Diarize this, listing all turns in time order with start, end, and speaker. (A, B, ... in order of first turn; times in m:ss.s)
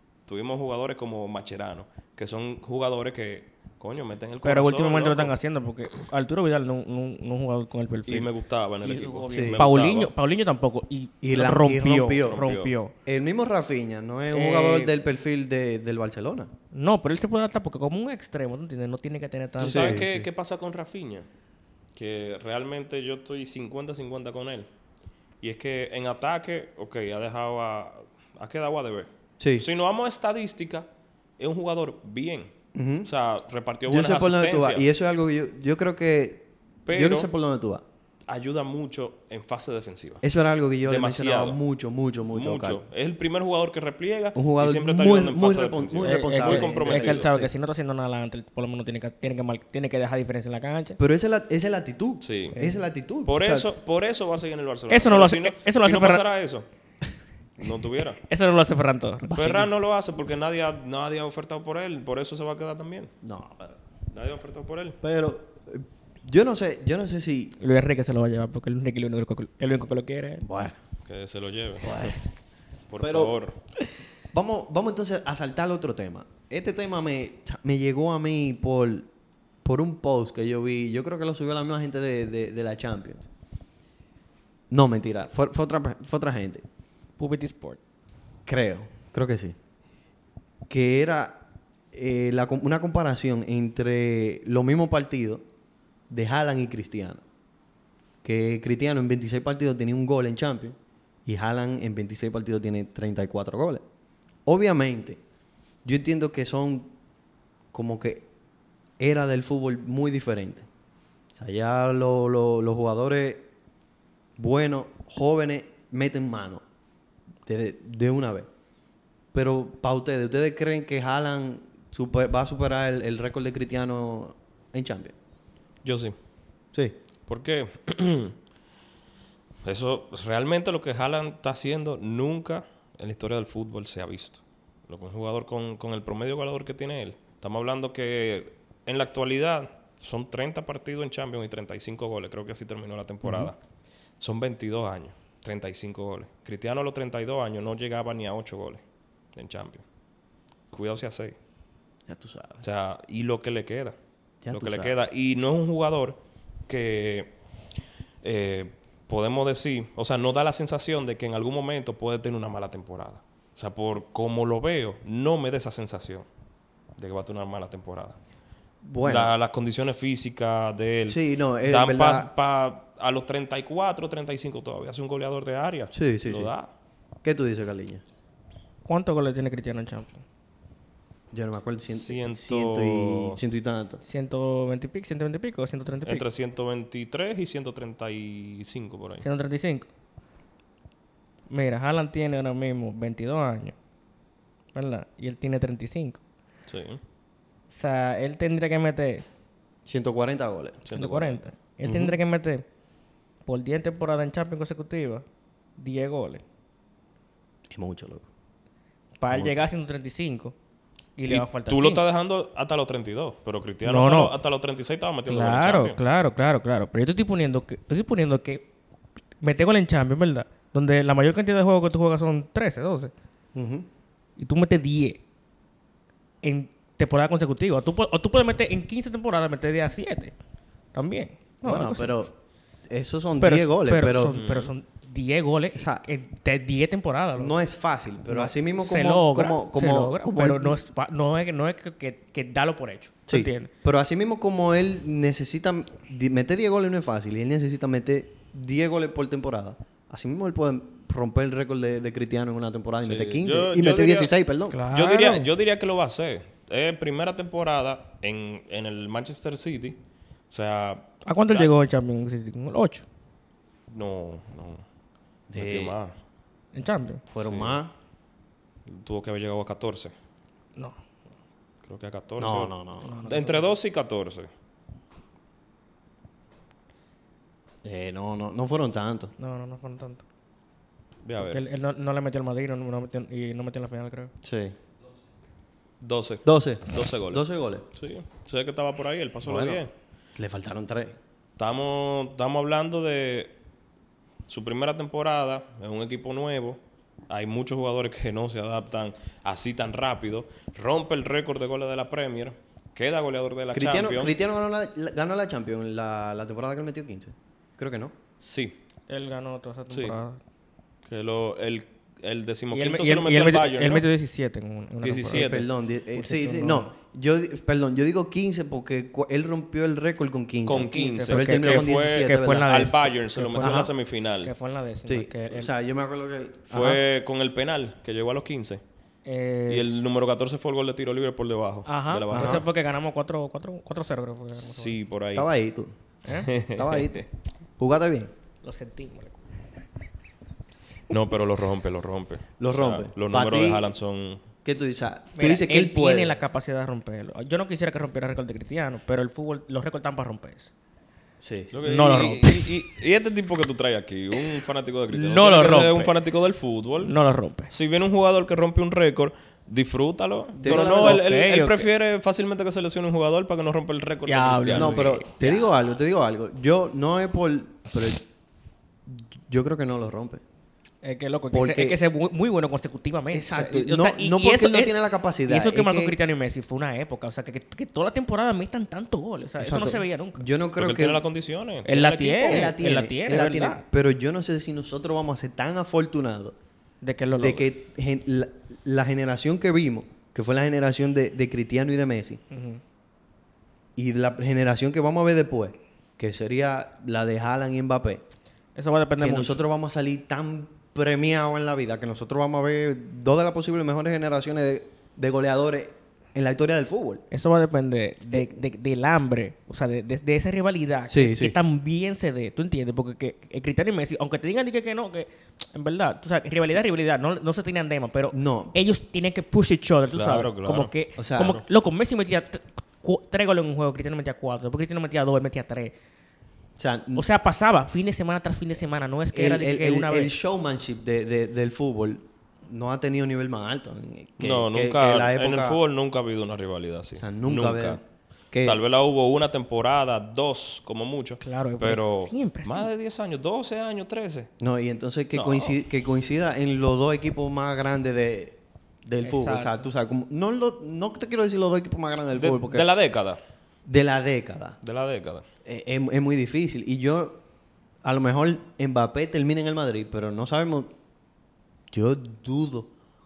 0:00.3-0:05.3 A
0:04.4-0:08.3 B
0:08.1-0:10.1 A
0:08.8-0:12.9 B
0:09.3-0:09.6 C
0:11.2-0:12.4 C
0:12.2-0:12.7 A
0:13.0-0:16.5 C
0:14.3-0:14.9 B
0:16.7-0:20.1 B
0:19.6-0:21.3 A
0:19.6-0:20.3 C
0:22.0-0:24.7 A
0:25.4-0:30.9 A
0:29.4-0:29.7 C
0:31.4-0:32.5 A
0:32.8-0:33.1 C
0:33.0-0:34.8 A
0:33.9-0:37.8 C
0:36.9-0:37.3 A
0:38.3-0:40.2 A
0:40.2-0:42.8 C
0:40.8-0:41.6 A
0:42.3-0:47.3 A
0:44.4-0:47.5 C
0:46.0-0:51.0 B
0:51.0-0:53.7 C
0:52.2-0:52.6 A
0:52.6-0:52.8 B
0:53.2-0:56.7 A
0:54.9-0:56.2 B
0:57.6-0:58.2 A
0:58.3-0:59.3 B
0:59.3-0:59.7 C
0:59.3-1:03.1 A
1:03.2-1:03.8 C
1:04.1-1:05.0 A
1:05.0-1:07.6 C
1:07.6-1:10.4 B
1:10.4-1:10.8 C
1:11.1-1:12.0 A
1:11.8-1:12.2 C
1:12.9-1:13.6 A
1:13.0-1:13.4 C
1:14.3-1:19.1 C
1:19.6-1:23.3 C
1:24.7-1:26.6 C
1:27.2-1:27.8 B
1:28.5-1:29.6 C
1:30.7-1:31.4 C
1:31.9-1:35.4 C
1:36.1-1:37.2 C
1:38.2-1:43.8 C
1:44.5-1:45.2 C
1:45.8-1:46.9 C
1:47.7-1:48.3 C
1:49.0-1:50.7 C
1:51.3-1:53.5 C
1:54.4-1:56.6 C
1:57.4-1:58.5 C
1:59.3-2:05.2 C
2:05.8-2:06.2 A
2:07.3-2:08.4 A
2:09.6-2:23.6 A
2:23.2-2:23.5 C
2:24.2-2:28.8 A
2:29.4-2:29.8 A
2:30.7-2:31.4 A
2:32.1-2:32.6 C
2:32.6-2:34.0 A
2:34.4-2:34.9 C
2:34.5-2:37.3 A
2:38.2-2:46.3 A
2:47.0-2:48.2 A
2:48.8-2:49.3 C
2:49.0-2:56.7 A
2:51.1-2:52.3 C
2:55.9-2:56.5 C
2:57.2-2:58.0 C
2:58.9-3:00.2 B
3:01.3-3:04.0 C
3:01.9-3:03.4 A
3:04.0-3:06.2 B
3:06.1-3:09.2 A
3:09.2-3:09.9 B
3:11.5-3:13.8 B
3:14.7-3:16.2 B
3:16.7-3:17.0 A
3:17.7-3:19.2 B
3:19.8-3:20.8 C
3:20.8-3:21.4 A
3:20.9-3:22.6 B
3:21.9-3:22.1 C
3:23.5-3:25.2 B
3:25.8-3:26.4 B
3:27.7-3:28.3 C
3:29.2-3:30.5 B
3:29.3-3:29.6 C
3:31.2-3:32.0 B
3:31.3-3:36.0 A
3:33.8-3:34.4 B
3:35.3-3:38.6 B
3:39.4-3:43.1 B
3:43.6-3:43.9 C
3:44.4-3:45.2 B
3:46.4-3:50.3 B
3:50.9-3:52.2 B
3:51.6-3:52.4 C
3:52.9-3:54.4 C
3:53.4-3:57.6 B
3:54.3-3:54.7 A
3:55.8-3:56.0 C
3:57.4-4:00.8 C
3:58.3-4:03.7 B
4:03.3-4:14.8 C
4:13.0-4:14.3 A
4:14.7-4:15.5 B
4:14.9-4:20.0 A
4:20.5-4:21.7 A
4:21.2-4:23.0 B
4:23.9-4:24.8 A
4:25.5-4:26.0 C
4:25.6-4:26.1 A
4:26.7-4:27.2 B
4:27.3-4:27.9 C
4:27.4-4:27.8 A
4:28.9-4:30.1 A
4:31.8-4:32.7 A
4:32.4-4:33.2 C
4:33.0-4:33.7 B
4:33.3-4:34.5 A
4:37.8-4:39.3 C
4:39.4-4:40.2 B
4:41.2-4:41.6 A
4:41.4-4:44.3 B
4:44.4-4:44.8 C
4:46.0-4:49.9 A
4:46.4-4:47.9 C
4:49.4-4:49.8 C
4:50.4-4:51.2 C
4:51.6-4:53.5 A
4:54.5-5:04.3 A
5:03.7-5:08.2 C
5:08.4-5:08.8 A
5:09.1-5:10.4 B
5:09.9-5:10.2 A
5:11.1-5:14.1 A
5:12.7-5:15.5 B
5:15.0-5:15.7 A
5:15.3-5:22.8 C
5:16.2-5:16.9 B
5:20.7-5:24.5 A
5:20.9-5:23.9 B
5:23.6-5:23.9 C
5:24.4-5:25.7 B
5:25.1-5:27.0 C
5:26.7-5:28.8 A
5:29.3-5:30.0 B
5:29.7-5:32.6 A
5:31.9-5:35.0 B
5:32.3-5:32.6 C
5:34.6-5:35.5 A
5:35.3-5:35.9 C
5:36.2-5:36.5 B
5:36.4-5:37.1 A
5:36.8-5:37.3 C
5:37.8-5:38.3 C
5:38.6-5:39.4 B
5:41.1-5:44.4 A
5:42.6-5:43.9 C
5:44.6-5:46.4 C
5:45.4-5:50.7 B
5:51.4-5:51.7 C
5:51.7-5:57.1 A
5:51.8-5:52.8 B
5:55.1-5:56.1 B
5:57.0-5:57.7 B
5:57.7-6:05.0 A
6:00.6-6:01.2 C
6:00.6-6:01.9 B
6:04.3-6:05.6 B
6:04.7-6:08.2 C
6:09.1-6:10.4 C
6:11.0-6:20.4 B
6:11.5-6:12.0 C
6:13.3-6:16.2 C
6:19.6-6:21.2 C
6:20.8-6:22.7 A
6:21.9-6:23.8 B
6:22.5-6:26.6 C
6:27.0-6:27.6 B
6:27.4-6:32.4 C
6:32.5-6:32.8 B
6:34.0-6:38.2 C
6:38.8-6:39.6 B
6:39.2-6:47.2 C
6:47.3-7:05.9 B
6:51.1-6:51.6 C
6:58.3-6:58.8 C
7:00.1-7:01.6 A
7:01.2-7:01.6 C
7:06.8-7:07.2 C
7:07.2-7:10.3 B
7:09.3-7:15.8 C
7:14.4-7:18.0 A
7:17.2-7:18.0 C
7:18.5-7:18.8 C
7:18.6-7:24.5 A
7:21.4-7:22.9 B
7:24.6-7:32.9 C
7:25.3-7:25.8 A
7:29.2-7:29.8 B
7:32.3-7:33.4 A
7:33.9-7:34.8 C
7:34.8-7:35.4 A
7:35.6-7:37.4 C
7:38.0-7:40.9 C
7:41.9-7:42.9 C